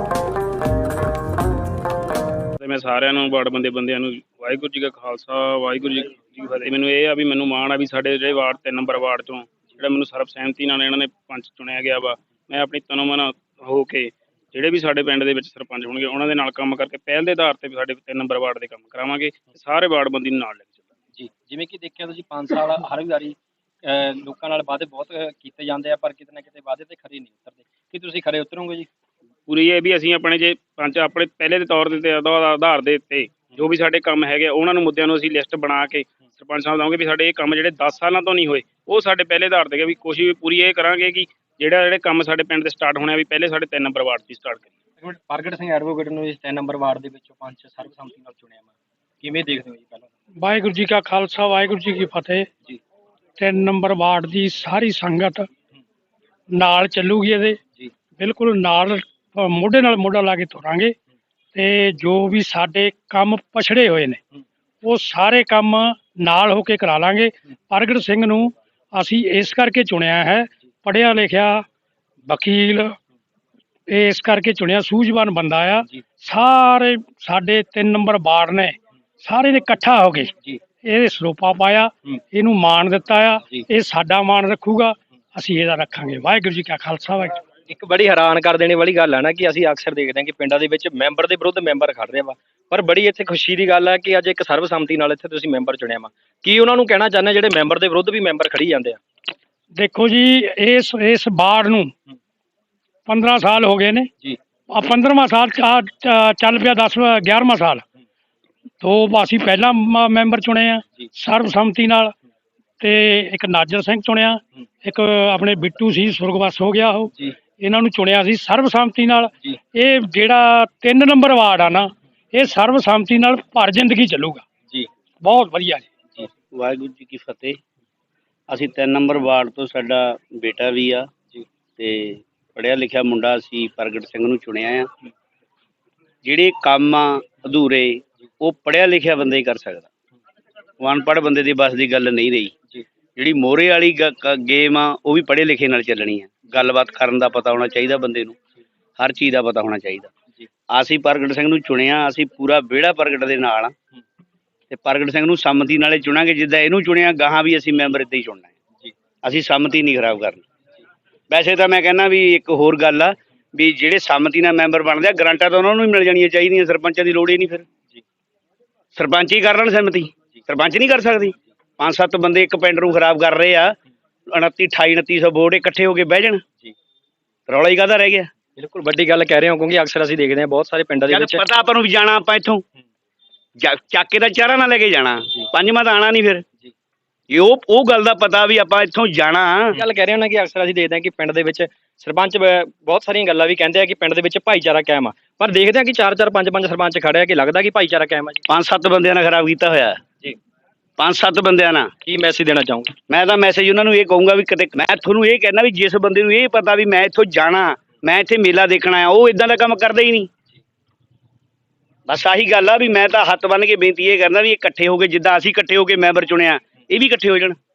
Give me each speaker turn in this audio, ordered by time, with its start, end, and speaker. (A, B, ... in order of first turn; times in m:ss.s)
0:02.6-0:20.7 A
0:21.2-0:28.9 B
0:29.5-0:44.7 A
0:45.0-0:50.1 B
0:50.4-0:52.5 C
0:53.4-0:55.5 C
0:56.6-0:57.6 C
0:58.2-1:01.0 C
1:01.6-1:04.2 C
1:04.8-1:11.7 C
1:12.3-1:13.0 C
1:13.9-1:20.3 C
1:20.8-1:27.5 C
1:27.7-1:39.0 B
1:39.8-1:41.9 C
1:43.1-1:44.1 C
1:44.7-1:47.8 C
1:48.8-1:52.1 C
1:52.8-2:04.4 C
2:05.2-2:05.9 C
2:06.5-2:07.6 D
2:08.5-2:11.1 D
2:11.8-2:14.9 D
2:16.2-2:19.9 D
2:20.8-2:22.5 D
2:23.2-2:28.4 D
2:29.0-2:30.1 D
2:30.7-2:33.7 D
2:34.7-2:38.5 D
2:39.2-2:40.4 D
2:41.3-2:47.7 D
2:49.0-2:53.8 D
2:54.3-2:56.4 D
2:57.5-2:58.3 D
2:58.6-3:01.4 B
3:01.1-3:02.6 D
3:03.6-3:06.4 D
3:07.3-3:09.8 D
3:09.7-3:18.4 B
3:18.5-3:20.0 D
3:21.0-3:21.9 D
3:22.0-3:22.9 B
3:23.1-3:30.3 D
3:32.1-3:37.6 D